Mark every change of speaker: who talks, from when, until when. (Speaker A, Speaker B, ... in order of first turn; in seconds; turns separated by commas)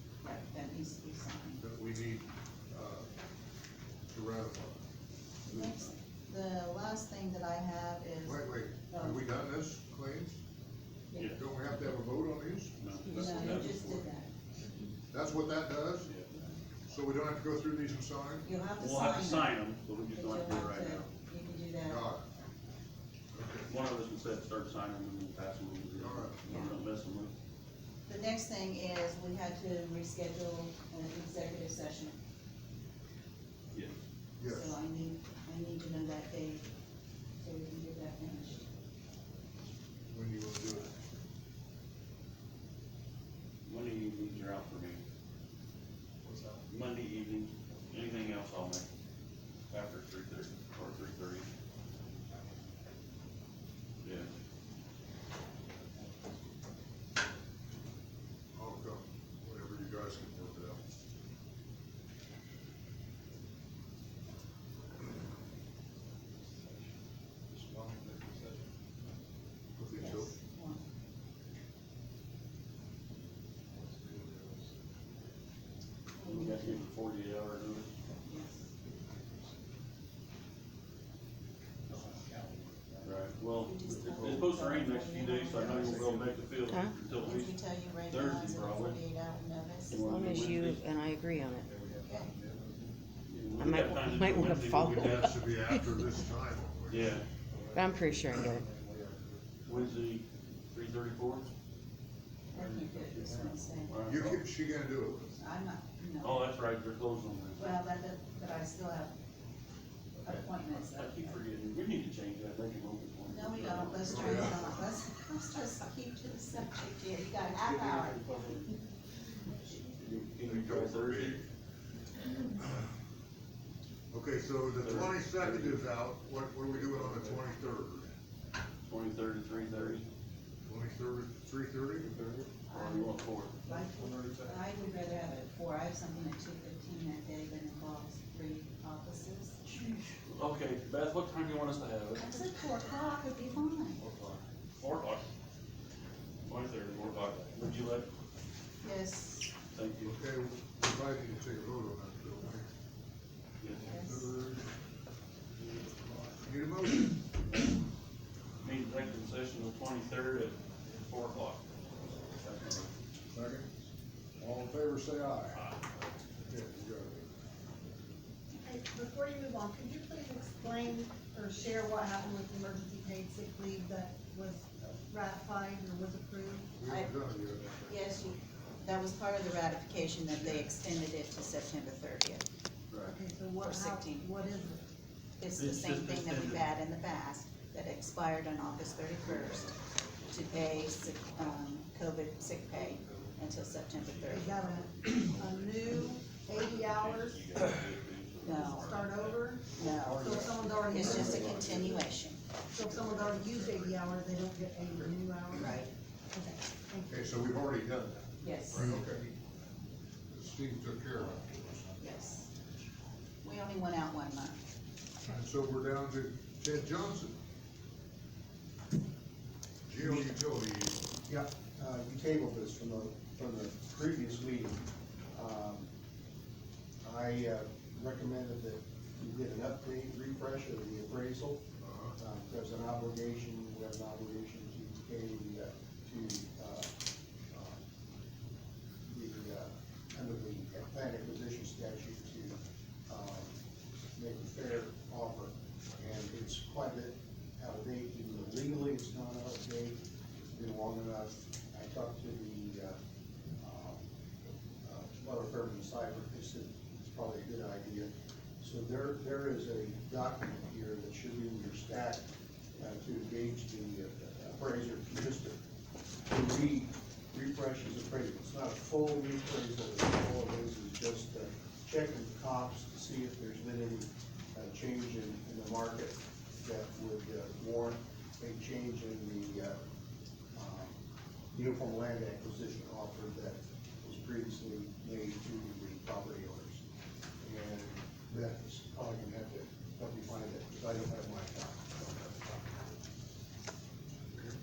Speaker A: 0.2-1.6, Speaker B: 1.6-3.1, Speaker B: 4.1-4.8, Speaker A: 5.5-9.2, Speaker C: 5.5-5.9, Speaker B: 8.2-10.4, Speaker A: 11.1-11.4, Speaker C: 11.1-11.4, Speaker B: 11.3-12.8, Speaker C: 12.8-14.1, Speaker A: 13.1-14.3, Speaker B: 15.1-16.1, Speaker B: 16.9-18.5, Speaker A: 18.4-19.6, Speaker C: 18.8-21.1, Speaker A: 20.1-22.0, Speaker B: 21.9-22.3, Speaker B: 23.3-23.7, Speaker C: 23.7-27.3, Speaker B: 26.0-26.4, Speaker A: 26.5-26.8, Speaker A: 28.1-32.2, Speaker C: 33.7-34.0, Speaker B: 34.4-34.7, Speaker A: 34.5-36.6, Speaker A: 37.4-38.6, Speaker B: 40.1-40.9, Speaker C: 43.6-45.0, Speaker D: 46.3-46.5, Speaker C: 46.7-48.9, Speaker C: 49.7-51.5, Speaker C: 54.0-54.3, Speaker B: 58.5-60.8, Speaker D: 67.7-68.6, Speaker B: 69.8-70.3, Speaker A: 70.0-70.8, Speaker D: 73.8-74.5, Speaker A: 76.2-76.8, Speaker C: 76.2-77.9, Speaker A: 78.2-78.6, Speaker D: 81.9-83.1, Speaker C: 83.0-89.0, Speaker A: 83.6-86.2, Speaker E: 86.7-86.9, Speaker A: 87.2-90.0, Speaker C: 89.9-90.8, Speaker E: 89.9-91.7, Speaker D: 91.7-92.9, Speaker A: 92.1-92.3, Speaker C: 93.3-95.5, Speaker E: 93.6-96.2, Speaker B: 94.8-97.2, Speaker C: 96.9-97.3, Speaker D: 97.5-99.4, Speaker E: 97.7-98.6, Speaker C: 99.7-101.5, Speaker A: 102.5-104.0, Speaker D: 102.6-102.9, Speaker C: 103.9-104.5, Speaker B: 104.0-105.4, Speaker A: 105.4-106.4, Speaker C: 106.2-107.7, Speaker A: 107.6-109.1, Speaker A: 110.2-111.4, Speaker C: 110.7-114.7, Speaker A: 113.3-118.2, Speaker B: 114.0-114.8, Speaker C: 117.5-118.7, Speaker A: 119.5-119.9, Speaker C: 119.9-121.4, Speaker B: 120.5-121.4, Speaker B: 124.1-128.1, Speaker C: 124.8-125.9, Speaker C: 126.7-127.4, Speaker C: 128.8-130.1, Speaker B: 130.7-132.1, Speaker A: 132.7-139.6, Speaker C: 132.7-133.6, Speaker D: 133.8-134.2, Speaker C: 139.7-142.3, Speaker A: 142.2-144.0, Speaker C: 144.8-145.3, Speaker C: 146.4-148.1, Speaker A: 148.8-149.5, Speaker C: 149.7-150.1, Speaker B: 150.1-152.7, Speaker C: 153.6-154.1, Speaker B: 153.7-154.7, Speaker A: 153.8-154.3, Speaker B: 156.2-157.2, Speaker C: 157.5-157.8, Speaker C: 158.6-161.6, Speaker C: 162.2-162.9, Speaker B: 163.3-163.7, Speaker B: 164.4-165.7, Speaker C: 165.5-165.9, Speaker B: 166.5-167.3, Speaker F: 168.6-176.8, Speaker B: 176.8-178.0, Speaker A: 177.8-182.4, Speaker C: 182.9-183.2, Speaker F: 183.1-184.8, Speaker A: 183.6-184.3, Speaker A: 185.4-189.8, Speaker C: 185.6-186.7, Speaker D: 189.3-189.8, Speaker A: 190.3-194.5, Speaker D: 192.8-193.3, Speaker C: 194.0-200.2, Speaker F: 194.3-197.6, Speaker A: 198.4-198.9, Speaker F: 198.5-202.1, Speaker A: 199.7-200.4, Speaker B: 199.8-200.8, Speaker C: 200.9-202.0, Speaker A: 200.9-202.4, Speaker F: 202.7-207.4, Speaker B: 204.8-205.1, Speaker A: 205.6-205.9, Speaker B: 207.1-209.2, Speaker A: 208.4-208.9, Speaker C: 208.7-209.1, Speaker B: 210.3-211.5, Speaker A: 212.0-212.5, Speaker A: 213.4-214.6, Speaker B: 215.2-217.4, Speaker B: 219.9-221.0, Speaker G: 221.3-224.8, Speaker G: 225.3-225.9, Speaker G: 227.0-231.6, Speaker B: 231.8-232.2, Speaker G: 232.2-236.9, Speaker G: 237.5-237.8, Speaker G: 239.1-243.6, Speaker G: 244.2-250.0, Speaker G: 250.5-253.0, Speaker G: 253.6-254.0, Speaker G: 254.8-262.3, Speaker G: 262.8-265.6, Speaker G: 266.3-279.8, Speaker G: 280.5-281.0, Speaker G: 281.5-286.8, Speaker G: 287.4-292.9